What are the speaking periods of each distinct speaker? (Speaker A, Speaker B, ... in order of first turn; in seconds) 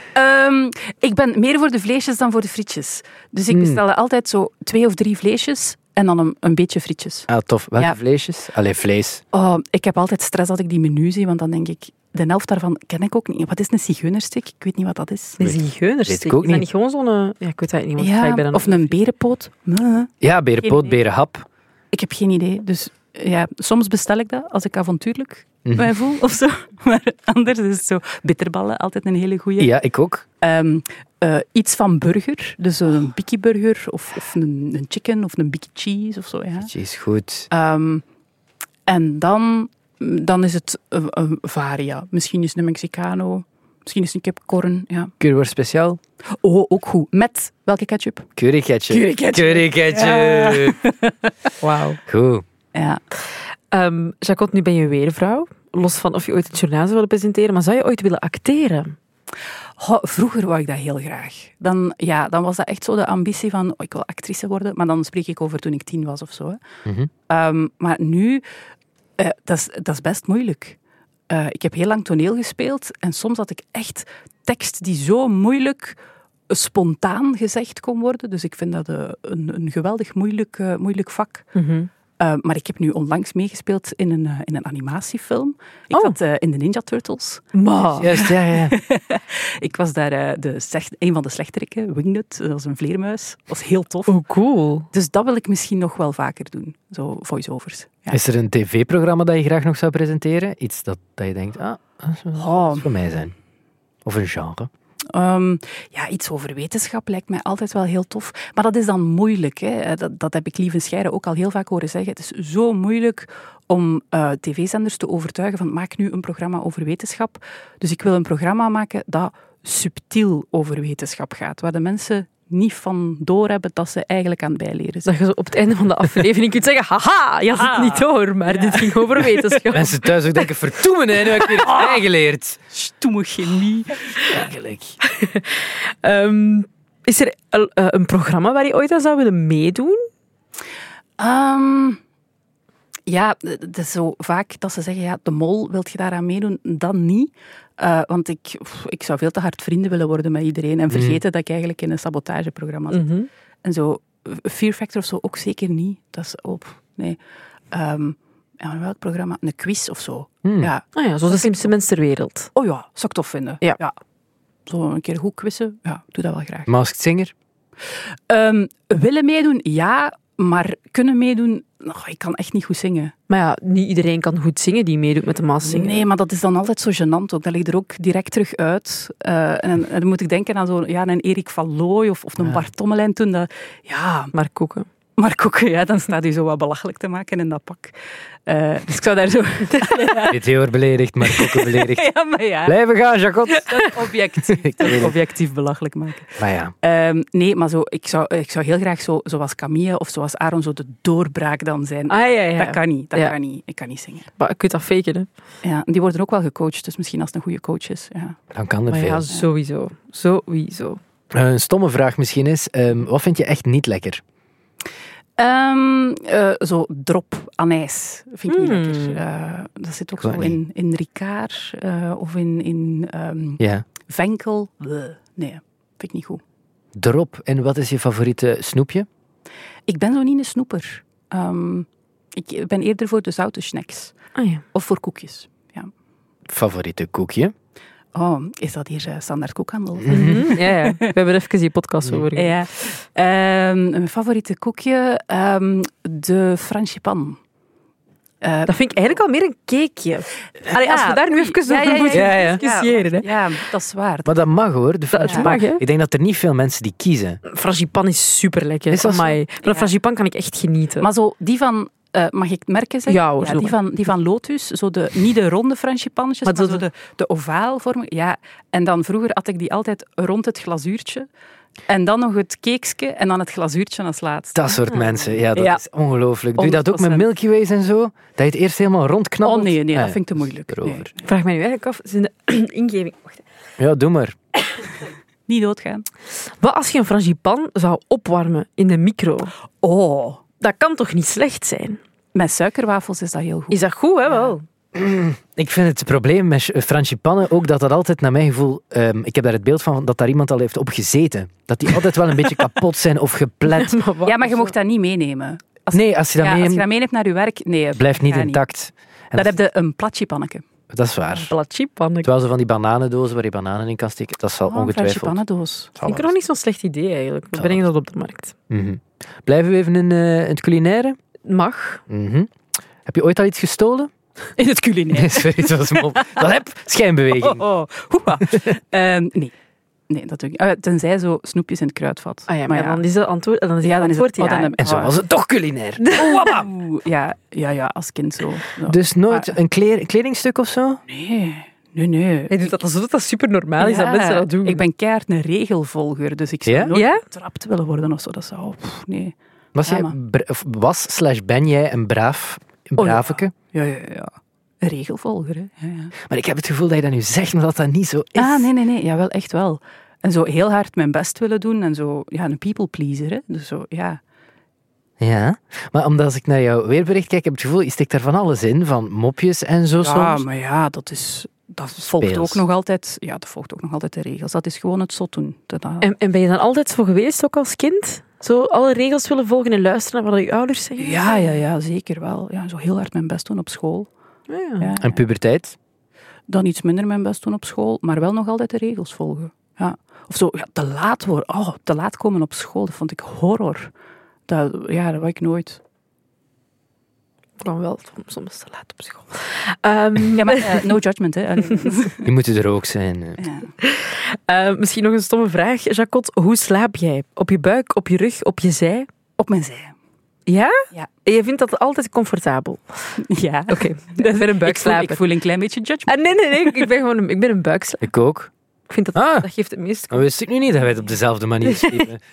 Speaker A: 0.1-7.3, 9.3-15.4, 18.0-20.9, 21.9-29.7, 30.4-36.7, 37.5-38.0, 38.9-45.1, 46.4-48.3, 48.9-51.9, 52.7-53.0, 59.8-66.6, 67.3-68.4, 69.2-70.8, 71.3-76.0, 76.5-81.5, 82.2-87.5, 88.1-94.2, 94.9-98.2, 102.4-102.9, 105.1-125.1, 127.5-129.7, 131.4-132.0, 132.7-134.2, 141.2-142.0, 143.1-153.1, 153.6-157.2, 157.7-161.7, 162.5-163.9, 164.7-166.7, 168.3-173.1, 175.6-184.3, 185.2-187.9, 188.4-190.4, 191.2-192.8, 193.6-204.3, 205.6-208.4, 215.4-226.4, 229.9-234.1, 234.7-235.9, 238.1-241.1, 242.3-247.4, 248.4-248.7, 250.7-254.3, 255.2-255.5, 259.6-259.9, 261.0-271.3, 271.9-274.8, 275.5-275.8, 276.6-277.2, 279.4-281.2, 285.5-286.0, 289.8-290.4, 292.3-294.5, 304.2-308.6, 309.3-310.6, 314.7-315.9, 324.6-326.4, 327.3-329.5, 330.1-333.0, 333.8-335.2, 336.2-339.5, 341.1-342.7, 343.8-350.1, 353.0-356.1, 358.4-364.2, 370.0-376.1, 381.0-384.1, 384.8-385.2, 386.5-393.9, 394.5-395.8, 400.3-402.3, 403.4-403.7, 409.4-409.9, 413.2-416.9
Speaker B: 3.5-3.8, 7.3-9.2, 15.4-16.6, 20.2-21.4, 25.6-25.9, 29.6-30.2, 36.6-37.5, 45.2-46.0, 48.4-50.8, 52.0-52.4, 88.0-88.8, 98.1-103.3, 104.0-104.7, 129.7-132.6, 134.3-135.0, 150.9-151.2, 160.4-160.7, 166.7-167.3, 190.3-192.1, 192.6-193.7, 194.5-195.1, 196.4-196.7, 208.5-209.3, 211.3-214.2, 220.2-220.6, 223.6-223.8, 226.9-229.1, 236.5-237.5, 240.0-240.5, 252.1-252.6, 254.2-257.4, 258.9-259.4, 274.5-281.1, 283.8-284.4, 294.9-304.0, 305.9-306.8, 307.9-309.5, 310.9-311.5, 312.2-315.4, 315.9-316.3, 317.5-317.9, 318.7-321.2, 322.1-322.5, 323.0-324.1, 325.1-327.6, 334.8-336.7, 338.9-341.0, 346.6-346.9, 349.7-353.5, 356.2-358.7, 365.2-370.4, 372.1-372.6, 385.0-385.8, 402.2-403.4, 418.0-418.5, 419.1-419.5, 420.1-422.2
Speaker C: 15.4-18.9, 51.6-52.0, 53.7-59.0, 81.5-81.9, 87.5-88.1, 94.1-94.9, 125.0-129.9, 135.0-140.1, 152.9-153.3, 160.9-162.5, 173.3-176.0, 184.3-184.9, 202.1-203.3, 204.4-205.3, 208.9-211.0, 218.5-219.2, 234.3-234.6, 240.1-242.6, 248.7-253.3, 255.1-255.8, 257.4-261.1, 263.1-263.8, 266.4-266.8, 281.2-283.4, 286.6-289.5, 290.6-292.0, 293.7-294.6, 303.8-304.7, 311.5-312.3, 316.0-318.5, 321.4-322.0, 332.5-334.7, 336.0-336.5, 342.5-344.8, 346.9-347.2, 376.0-381.5, 384.5-384.9, 397.6-400.9, 403.8-409.1, 410.5-413.2, 413.7-415.2, 416.1-418.0, 418.9-420.2, 421.6-422.0